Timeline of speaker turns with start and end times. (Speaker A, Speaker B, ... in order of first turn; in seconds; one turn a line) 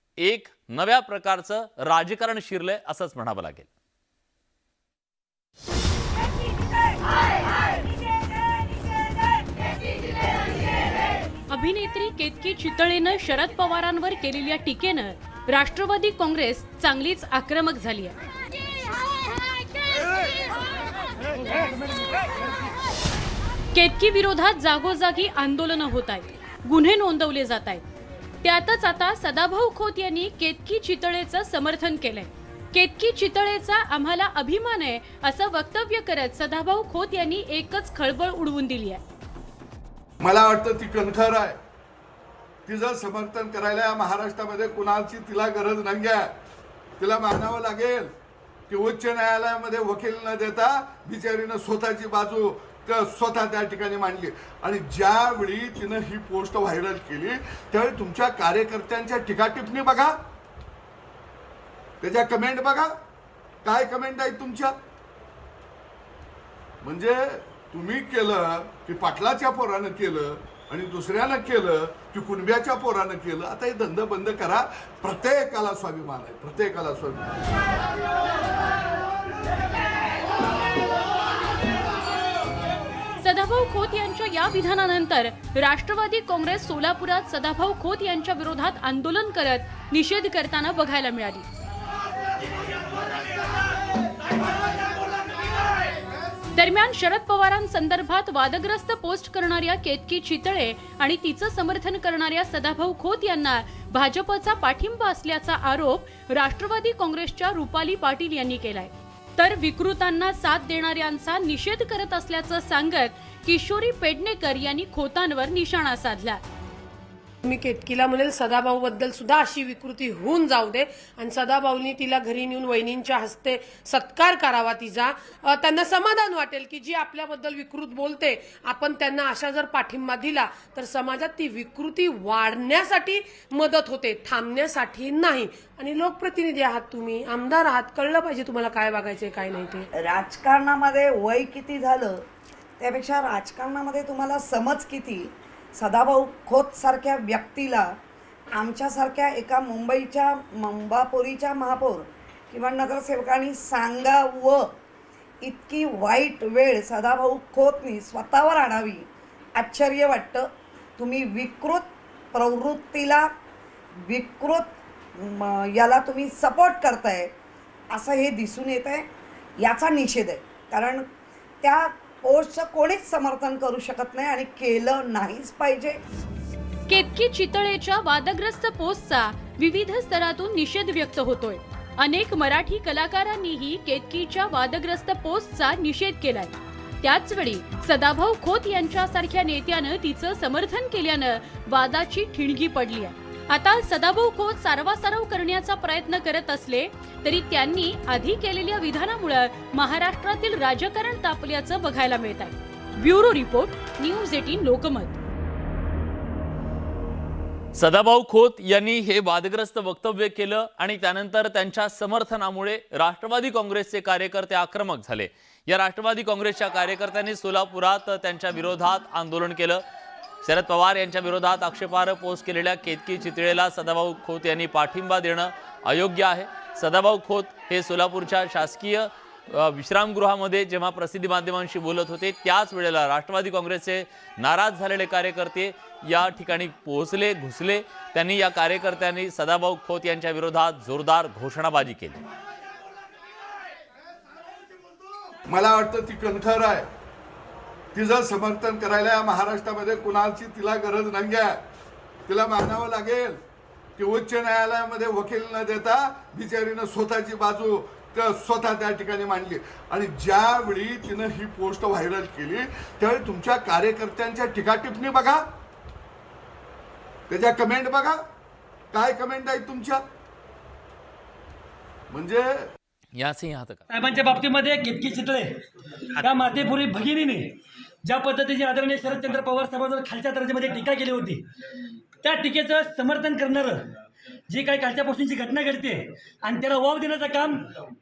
Speaker A: 0.2-3.7
Speaker B: 11.5-18.2
Speaker B: 23.7-27.8
Speaker B: 28.4-39.0
Speaker C: 40.2-41.6
Speaker C: 42.7-46.3
Speaker C: 47.0-48.1
Speaker C: 48.7-60.2
Speaker C: 62.0-62.9
Speaker C: 63.6-64.8
Speaker C: 66.8-77.3
Speaker B: 83.2-91.5
Speaker B: 96.5-116.4
Speaker D: 117.4-139.9
Speaker E: 140.0-142.2
Speaker E: 142.8-148.0
Speaker E: 148.6-154.7
Speaker E: 155.4-159.1
Speaker E: 159.6-160.5
Speaker E: 161.0-163.3
Speaker E: 164.0-167.3
Speaker E: 167.9-169.1
Speaker E: 169.6-171.1
Speaker E: 171.6-176.0
Speaker B: 176.9-205.2
Speaker A: 207.7-219.8
Speaker A: 220.4-242.2
Speaker C: 245.5-246.9
Speaker C: 247.9-251.6
Speaker C: 252.3-253.4
Speaker C: 254.0-265.4
Speaker C: 267.3-268.2
Speaker C: 268.9-270.0
Speaker C: 272.1-272.7
Speaker A: 273.1-273.8
Speaker F: 273.9-275.6
Speaker F: 276.2-281.4
Speaker F: 282.2-283.9
Speaker F: 284.5-287.6